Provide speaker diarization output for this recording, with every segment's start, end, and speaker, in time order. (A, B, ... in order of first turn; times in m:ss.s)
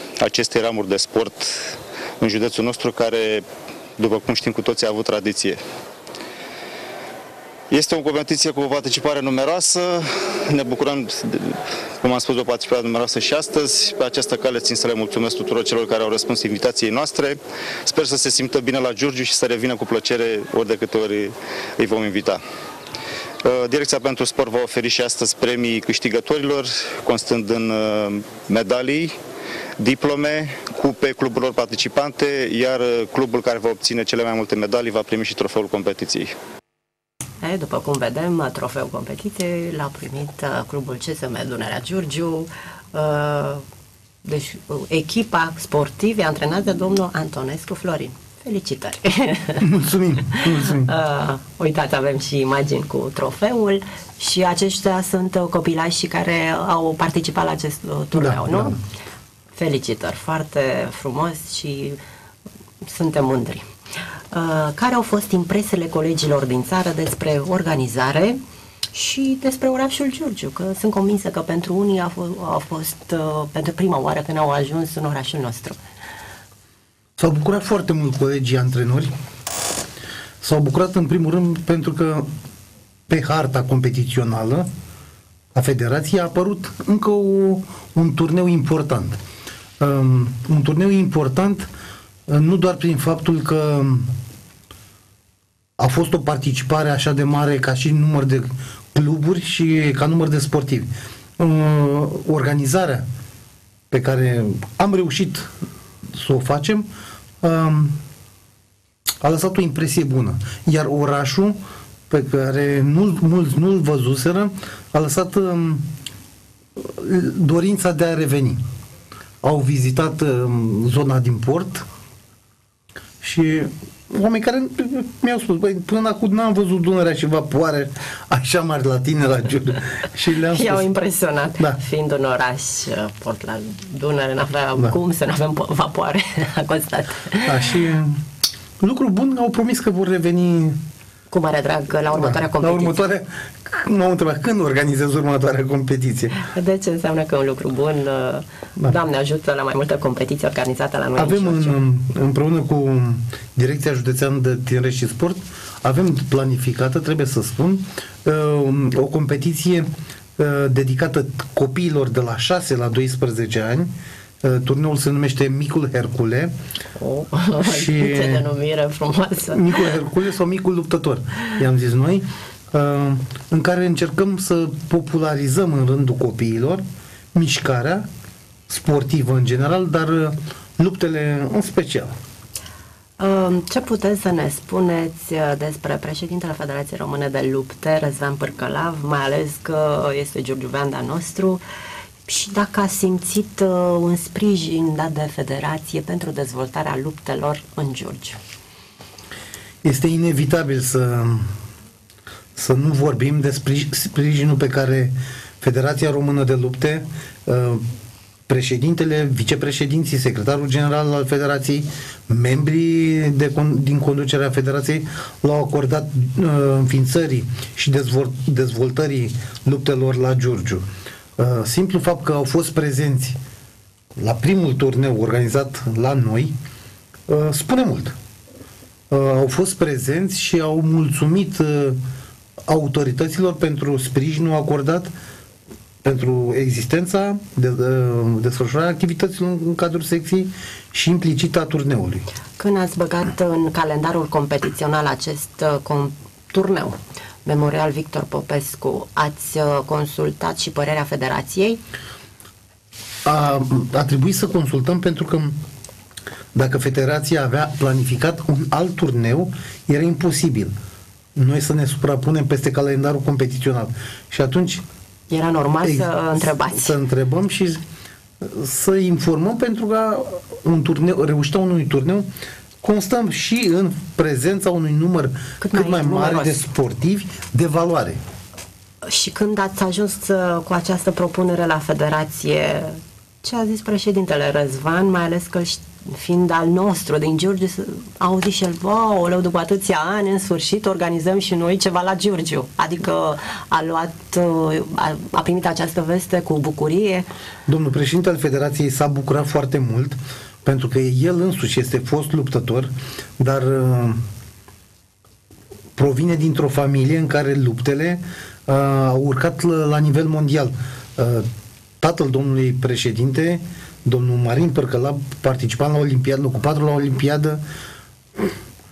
0:00.2-0:03.4 A
0:04.0-0:05.6 A
0:07.7-0:22.4 A
0:23.4-0:29.2 A
0:29.8-0:36.4 A
0:37.4-0:43.6 B
0:44.2-0:49.7 B
0:49.6-0:50.9 C
0:50.3-0:58.8 B
0:58.1-0:58.8 C
0:59.6-1:02.0 B
1:02.8-1:03.6 B
1:04.3-1:08.4 B
1:08.9-1:15.8 B
1:17.2-1:19.1 C
1:20.4-1:22.3 C
1:23.1-1:24.7 C
1:25.5-1:29.2 C
1:29.8-1:31.7 C
1:32.3-1:34.1 C
1:35.8-1:43.1 C
1:43.9-1:45.5 C
1:46.1-1:46.9 C
1:47.4-1:48.0 C
1:49.2-1:55.9 C
1:56.8-1:58.6 C
1:59.4-2:01.9 C
2:03.2-2:10.9 C
2:10.5-2:17.7 B
2:17.4-2:18.2 C
2:18.8-2:20.8 C
2:21.3-2:23.0 B
2:22.1-2:26.4 C
2:26.4-2:31.8 B
2:31.2-2:46.5 C
2:47.0-2:49.9 B
2:47.6-2:48.5 C
2:49.5-2:56.8 C
2:57.3-2:58.1 C
2:58.7-3:02.2 C
3:03.2-3:11.6 B
3:12.3-3:18.4 B
3:19.8-3:21.5 C
3:22.6-3:27.8 C
3:28.5-3:43.4 C
3:44.2-3:46.5 C
3:47.3-3:48.2 C
3:49.1-3:52.0 C
3:52.7-3:55.1 C
3:56.0-4:02.3 C
4:02.6-4:11.8 B
4:13.2-4:15.6 C
4:16.5-4:20.7 C
4:21.4-4:24.8 C
4:25.3-4:27.0 B
4:25.8-4:27.8 C
4:28.4-4:32.3 C
4:32.8-4:38.2 C
4:35.6-4:36.6 B
4:39.0-4:57.3 B
4:57.7-5:04.2 C
5:06.0-5:11.5 C
5:12.0-5:17.6 C